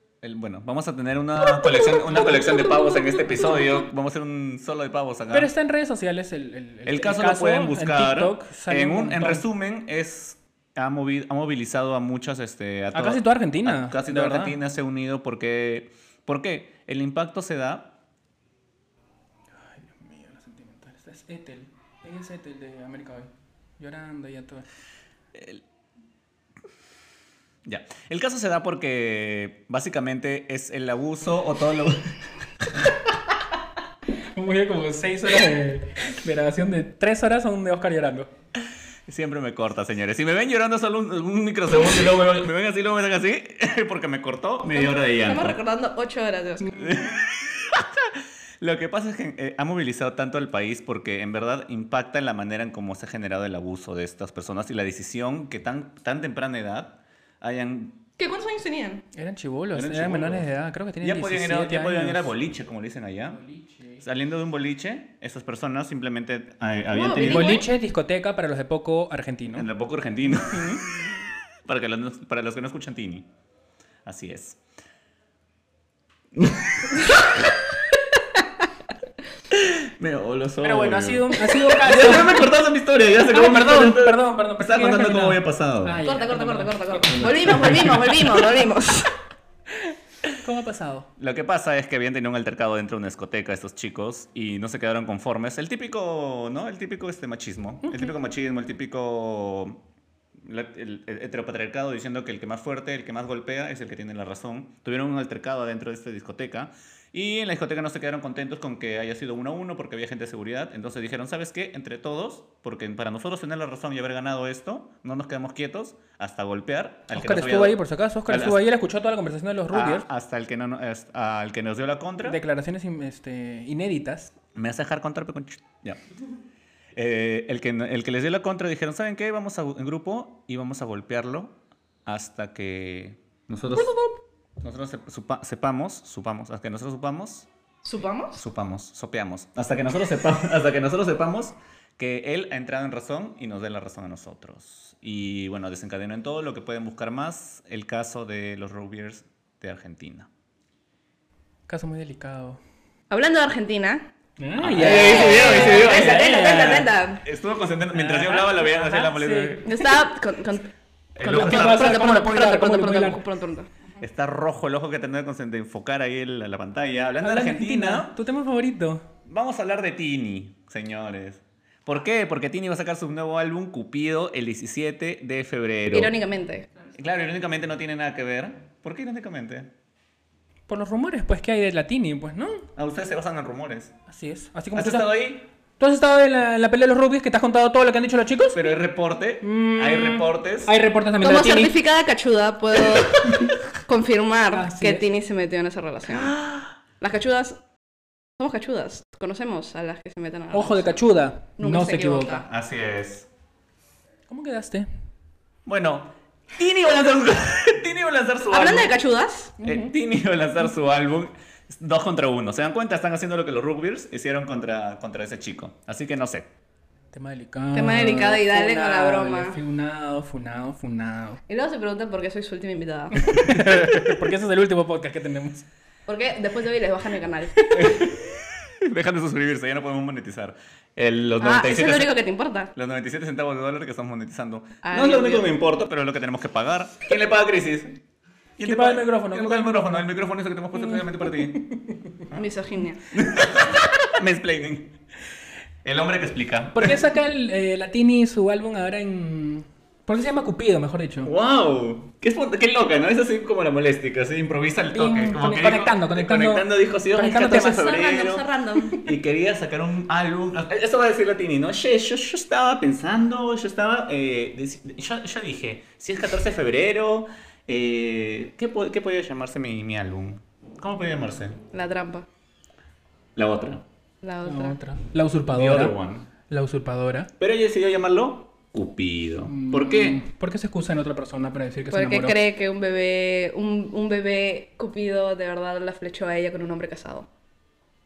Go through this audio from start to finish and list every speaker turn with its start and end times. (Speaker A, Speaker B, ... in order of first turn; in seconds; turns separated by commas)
Speaker A: 0.2-5.5, Speaker B: 1.7-3.5, Speaker B: 5.3-9.4, Speaker A: 6.8-17.9, Speaker B: 12.9-14.6, Speaker B: 19.8-24.6, Speaker A: 25.3-25.6, Speaker A: 27.6-32.2, Speaker B: 34.4-38.3, Speaker A: 39.1-45.6, Speaker C: 44.7-46.9, Speaker A: 46.7-58.0, Speaker C: 58.2-59.0, Speaker B: 59.1-62.3, Speaker A: 59.7-60.5, Speaker A: 61.0-63.4, Speaker B: 63.3-64.0, Speaker A: 64.0-67.6, Speaker C: 66.9-67.7, Speaker B: 67.2-69.7, Speaker A: 69.5-71.1, Speaker B: 70.5-70.8, Speaker A: 71.6-73.3, Speaker A: 74.0-74.6, Speaker A: 76.3-77.3, Speaker A: 79.5-86.0, Speaker B: 80.6-82.5, Speaker B: 83.2-88.1, Speaker C: 86.0-89.1, Speaker B: 90.3-91.1, Speaker A: 91.2-99.8, Speaker B: 97.8-98.1, Speaker A: 100.4-118.7, Speaker B: 117.1-120.1, Speaker A: 119.7-122.4, Speaker B: 122.2-124.3, Speaker A: 124.5-126.0, Speaker A: 126.9-133.9, Speaker C: 133.7-134.2, Speaker A: 134.6-137.5, Speaker C: 137.8-138.4, Speaker A: 138.3-150.3, Speaker B: 151.7-152.6, Speaker C: 153.1-154.1, Speaker B: 154.4-156.9, Speaker A: 154.6-159.9, Speaker C: 154.8-157.2, Speaker B: 157.9-159.7, Speaker C: 159.6-163.7, Speaker A: 161.2-162.1, Speaker B: 161.3-163.2, Speaker A: 164.0-168.1, Speaker B: 167.2-169.0, Speaker A: 169.2-176.1, Speaker C: 175.9-176.7, Speaker A: 176.9-179.7, Speaker B: 180.7-182.7, Speaker A: 182.8-183.9, Speaker B: 184.1-185.1, Speaker A: 184.7-185.4, Speaker B: 185.8-188.6, Speaker A: 188.5-190.7, Speaker B: 189.4-191.7, Speaker C: 191.2-196.4, Speaker B: 194.5-195.1, Speaker A: 196.1-196.7, Speaker C: 197.0-197.6, Speaker C: 198.4-201.0, Speaker B: 200.5-202.4, Speaker C: 201.6-202.4, Speaker A: 202.4-203.3, Speaker B: 204.3-204.9, Speaker A: 205.7-208.9, Speaker C: 208.5-209.5, Speaker B: 209.6-209.9, Speaker A: 209.6-216.5, Speaker B: 217.1-221.4, Speaker C: 217.7-219.6, Speaker C: 221.5-223.3, Speaker B: 223.2-225.6, Speaker C: 226.1-227.9, Speaker A: 227.7-232.2, Speaker C: 231.4-232.7, Speaker A: 232.7-238.0, Speaker C: 234.8-235.5, Speaker A: 238.6-241.6, Speaker B: 238.6-240.0, Speaker B: 240.7-242.1, Speaker C: 242.3-243.0, Speaker A: 243.1-244.9, Speaker A: 245.8-247.0, Speaker B: 246.7-251.3, Speaker A: 251.2-271.6, Speaker B: 254.9-257.9, Speaker C: 257.3-259.0, Speaker C: 271.7-272.3, Speaker A: 273.4-273.8, Speaker C: 274.2-274.8, Speaker B: 274.4-276.0, Speaker A: 275.5-276.3, Speaker B: 276.5-277.3, Speaker A: 277.4-280.2, Speaker B: 279.5-282.3, Speaker C: 281.9-287.3